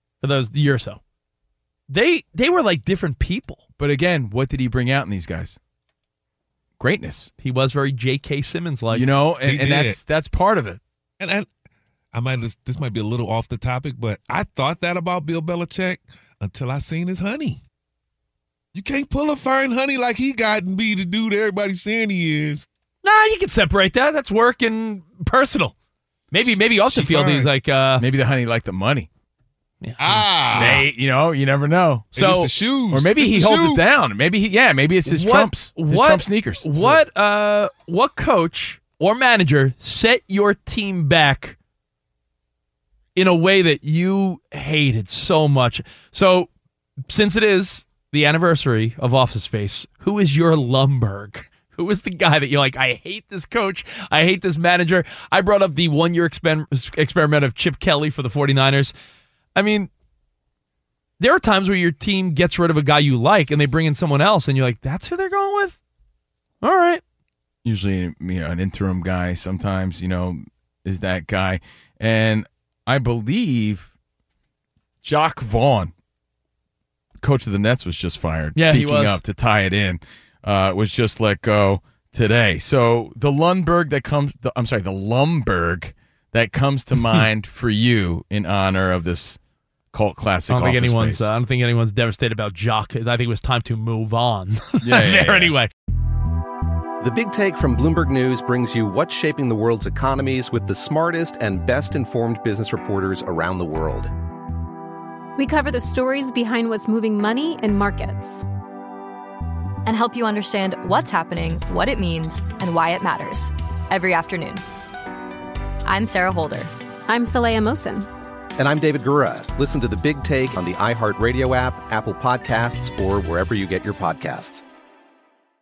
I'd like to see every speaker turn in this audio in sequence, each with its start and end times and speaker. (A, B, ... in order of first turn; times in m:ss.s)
0:00.2-0:01.0 A
0:01.9-0:03.6 A
0:03.8-0:05.6 B
0:06.8-0:07.3 B
0:07.4-0:09.0 A
0:08.9-0:10.8 B
0:09.4-0:10.0 C
0:11.2-0:11.5 C
0:12.1-0:17.6 C
0:18.7-0:22.7 C
0:23.0-0:25.7 A
0:26.3-0:28.0 A
0:26.4-0:27.5 C
0:28.0-0:29.1 B
0:29.8-0:30.9 A
0:30.0-0:30.9 C
0:30.6-0:32.4 B
0:32.1-0:33.8 C
0:32.2-0:32.5 A
0:32.9-0:36.9 B
0:35.1-0:41.6 A
0:43.2-0:46.5 A
0:47.1-0:58.9 A
0:59.6-0:59.9 A
1:01.2-1:05.8 A
1:06.6-1:07.0 A
1:07.6-1:13.9 B
1:15.0-1:15.9 B
1:17.2-1:29.4 B
1:18.6-1:19.2 A
1:29.9-1:31.2 B
1:30.5-1:35.7 A
1:34.8-1:35.6 B
1:37.0-1:44.1 D
1:45.4-1:48.4 E
1:49.8-1:54.6 F
1:55.8-1:56.7 F
1:57.1-1:58.1 E
1:58.6-2:04.6 D